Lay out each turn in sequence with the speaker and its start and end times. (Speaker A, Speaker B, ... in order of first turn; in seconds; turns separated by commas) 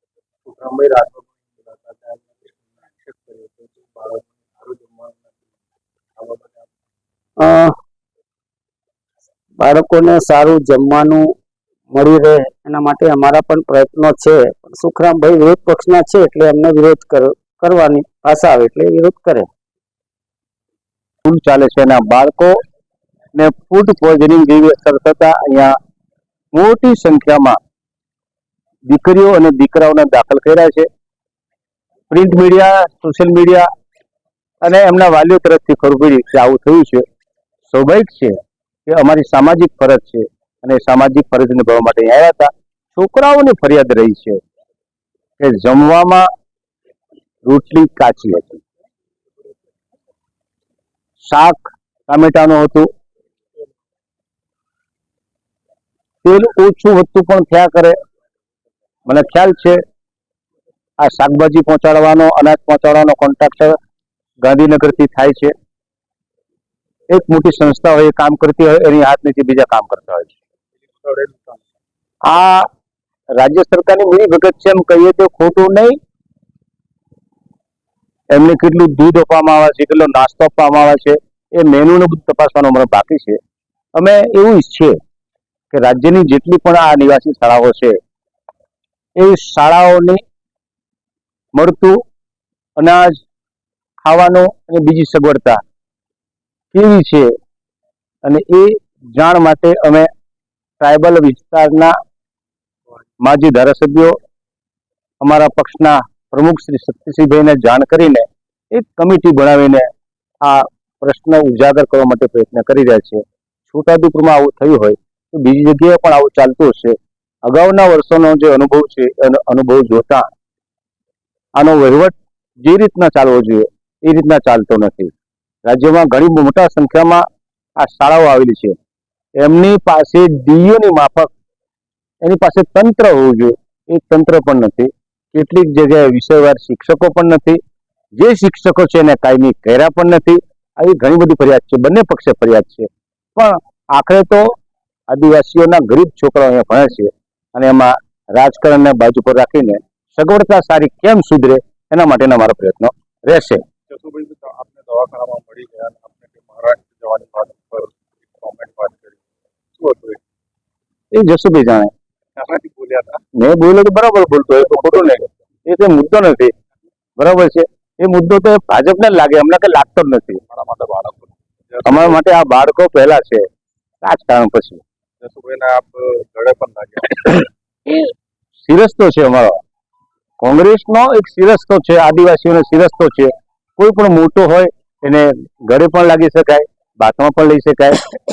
Speaker A: 0.5-5.5, Speaker A: 6.2-6.7, Speaker B: 9.6-11.3, Speaker B: 11.9-19.5, Speaker C: 21.2-22.6, Speaker C: 23.4-25.7, Speaker C: 26.5-27.6, Speaker C: 28.9-30.9, Speaker C: 32.1-33.7, Speaker C: 34.6-37.0, Speaker C: 37.7-38.4, Speaker C: 38.9-44.4, Speaker C: 45.4-46.3, Speaker C: 47.5-48.6, Speaker C: 51.2-52.9, Speaker C: 56.2-58.0, Speaker C: 59.1-59.8, Speaker C: 61.0-63.8, Speaker C: 64.4-65.5, Speaker C: 67.1-70.3, Speaker A: 71.0-71.6, Speaker C: 72.3-72.7, Speaker C: 73.4-76.0, Speaker C: 78.3-83.4, Speaker C: 84.0-85.0, Speaker C: 85.7-88.0, Speaker C: 89.2-90.2, Speaker C: 91.5-92.0, Speaker C: 92.8-93.2, Speaker C: 94.0-95.6, Speaker C: 96.7-97.3, Speaker C: 98.2-100.1, Speaker C: 100.8-101.9, Speaker C: 103.2-104.2, Speaker C: 105.2-109.9, Speaker C: 110.5-117.0, Speaker C: 117.5-120.3, Speaker C: 121.6-125.1, Speaker C: 125.7-127.2, Speaker C: 127.8-128.8, Speaker C: 129.4-131.3, Speaker C: 132.2-137.6, Speaker C: 138.2-144.5, Speaker C: 145.1-153.6, Speaker A: 153.9-159.2, Speaker A: 159.8-160.2, Speaker C: 161.1-161.9, Speaker A: 162.4-163.2, Speaker C: 163.4-166.5, Speaker A: 164.6-165.3, Speaker C: 167.2-170.4, Speaker A: 170.5-172.2, Speaker C: 171.8-173.4, Speaker C: 174.0-174.8, Speaker A: 175.2-177.5, Speaker C: 178.7-179.6, Speaker C: 180.4-188.0